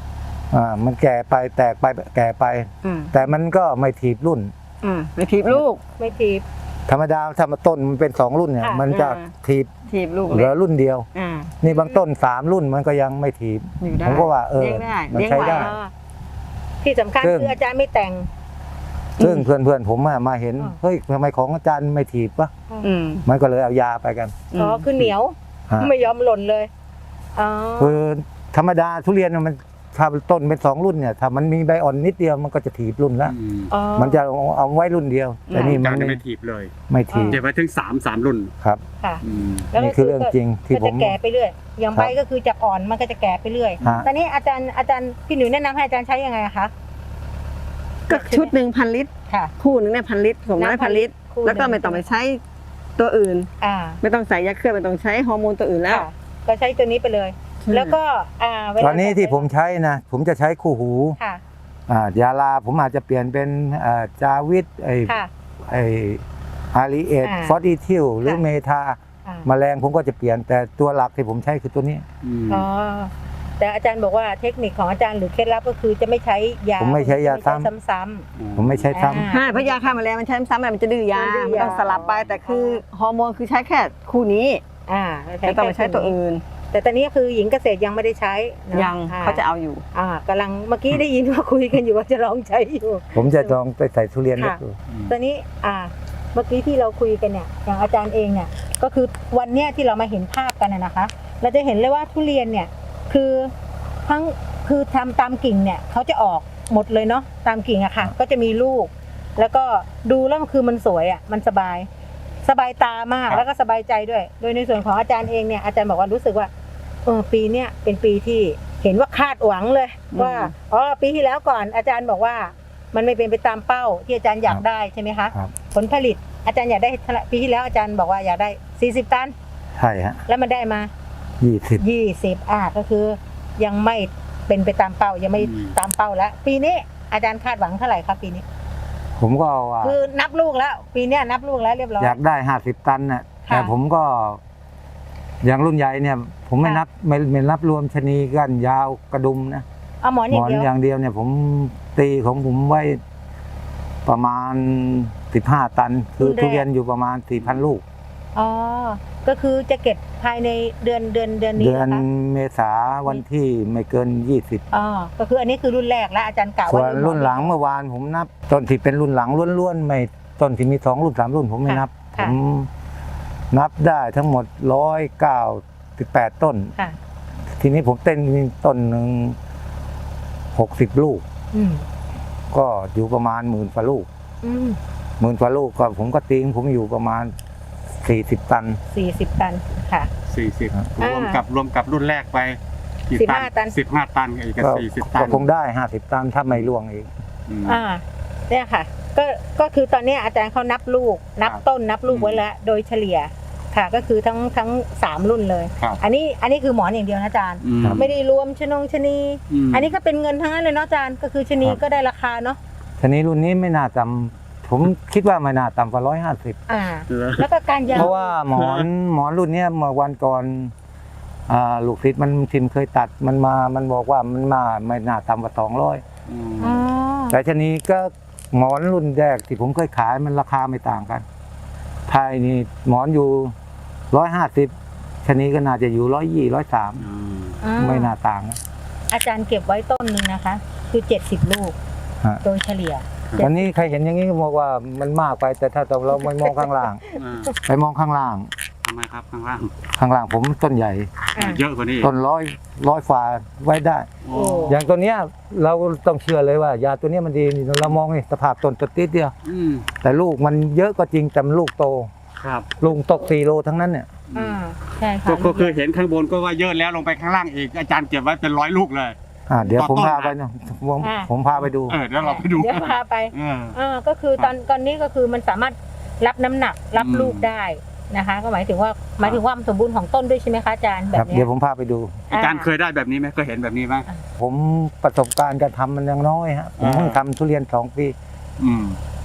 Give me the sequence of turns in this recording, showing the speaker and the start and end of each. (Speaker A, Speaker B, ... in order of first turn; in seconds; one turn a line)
Speaker A: 0.5-4.5
Speaker B: 2.8-3.1
Speaker B: 4.8-5.8
Speaker C: 6.0-6.4
Speaker A: 6.9-9.7
Speaker C: 8.6-8.8
Speaker B: 8.9-9.3
Speaker B: 9.9-10.5
Speaker A: 10.3-11.1
Speaker B: 11.1-11.5
Speaker A: 11.6-15.7
Speaker C: 11.6-12.0
Speaker B: 13.8-15.7
Speaker C: 15.3-15.9
Speaker C: 16.8-18.3
Speaker A: 17.2-17.6
Speaker B: 19.2-19.4
Speaker A: 19.2-22.5
Speaker B: 22.8-23.2
Speaker A: 23.2-24.3
Speaker B: 24.5-24.8
Speaker C: 24.5-26.7
Speaker C: 27.3-28.0
Speaker A: 27.8-33.3
Speaker D: 33.2-33.7
Speaker C: 33.7-34.2
Speaker A: 33.9-36.2
Speaker B: 35.5-35.8
Speaker D: 35.6-36.7
Speaker A: 36.9-37.4
Speaker C: 37.1-37.4
Speaker D: 37.3-38.5
Speaker C: 39.0-46.7
Speaker D: 39.2-39.7
Speaker A: 39.7-41.2
Speaker D: 43.8-44.0
Speaker A: 43.8-44.1
Speaker B: 48.1-52.4
Speaker C: 48.1-48.5
Speaker C: 50.6-52.1
Speaker B: 53.0-53.5
Speaker C: 53.6-54.0
Speaker B: 54.0-56.0
Speaker C: 55.9-59.5
Speaker B: 57.6-57.9
Speaker A: 58.8-61.2
Speaker A: 61.9-65.1
Speaker A: 65.7-72.0
Speaker C: 67.2-67.5
Speaker D: 72.2-72.7
Speaker C: 72.5-78.2
Speaker A: 76.8-77.7
Speaker D: 78.4-79.2
Speaker A: 78.5-79.3
Speaker C: 78.9-80.0
Speaker B: 79.3-84.6
Speaker C: 81.1-82.8
Speaker C: 84.9-86.2
Speaker B: 85.4-86.4
Speaker C: 86.7-89.4
Speaker B: 88.7-89.8
Speaker C: 89.9-93.5
Speaker A: 93.1-94.7
Speaker C: 94.4-103.5
Speaker C: 104.0-111.9
Speaker C: 112.4-116.5
Speaker C: 117.0-129.3
Speaker B: 120.1-120.5
Speaker A: 129.8-130.2
Speaker C: 130.3-130.9
Speaker A: 131.4-131.8
Speaker C: 131.8-138.4
Speaker D: 135.4-135.8
Speaker A: 139.2-140.0
Speaker C: 139.8-142.2
Speaker A: 142.0-144.4
Speaker C: 143.4-143.7
Speaker A: 145.4-149.6
Speaker C: 150.0-150.7
Speaker A: 150.3-153.0
Speaker A: 154.1-157.8
Speaker C: 156.2-156.7
Speaker C: 158.3-162.0
Speaker A: 161.6-164.6
Speaker C: 164.7-167.5
Speaker A: 166.7-172.7
Speaker C: 171.7-172.3
Speaker A: 173.5-176.8
Speaker A: 177.6-179.4
Speaker A: 180.5-181.2
Speaker C: 181.5-181.8
Speaker A: 182.5-184.1
Speaker C: 184.4-184.8
Speaker A: 185.2-187.3
Speaker A: 187.9-188.8
Speaker C: 188.9-190.1
Speaker D: 190.3-195.4
Speaker C: 191.0-191.4
Speaker C: 193.1-193.8
Speaker A: 194.6-197.1
Speaker D: 197.5-197.8
Speaker C: 197.6-212.6
Speaker D: 201.4-202.4
Speaker D: 207.6-208.1
Speaker D: 209.5-209.9
Speaker A: 213.0-216.6
Speaker C: 216.7-218.3
Speaker D: 217.1-218.9
Speaker A: 217.9-220.7
Speaker A: 221.5-226.0
Speaker D: 226.3-226.8
Speaker C: 226.6-227.4
Speaker A: 227.3-231.2
Speaker A: 232.1-233.5
Speaker A: 234.1-237.1
Speaker D: 237.0-237.6
Speaker C: 237.6-238.1
Speaker A: 237.8-238.6
Speaker C: 239.1-241.8
Speaker C: 242.4-243.6
Speaker A: 243.4-247.0
Speaker C: 246.1-247.2
Speaker D: 247.2-247.5
Speaker A: 247.6-248.5
Speaker D: 248.8-249.7
Speaker A: 249.9-251.1
Speaker C: 251.3-251.6
Speaker D: 251.4-252.1
Speaker A: 252.0-254.1
Speaker D: 254.2-254.8
Speaker C: 254.3-254.8
Speaker A: 254.7-259.3
Speaker D: 259.4-259.9
Speaker A: 260.0-262.1
Speaker D: 262.4-262.7
Speaker A: 262.8-264.1
Speaker D: 264.3-264.6
Speaker C: 264.3-265.8
Speaker D: 265.2-269.1
Speaker A: 269.5-272.0
Speaker C: 269.5-270.0
Speaker D: 269.8-270.4
Speaker C: 271.0-271.3
Speaker D: 271.6-273.8
Speaker C: 272.2-281.5
Speaker D: 276.9-277.5
Speaker A: 281.1-282.2
Speaker C: 282.3-282.7
Speaker D: 282.3-284.1
Speaker A: 284.4-288.1
Speaker D: 286.8-287.2
Speaker D: 288.6-289.0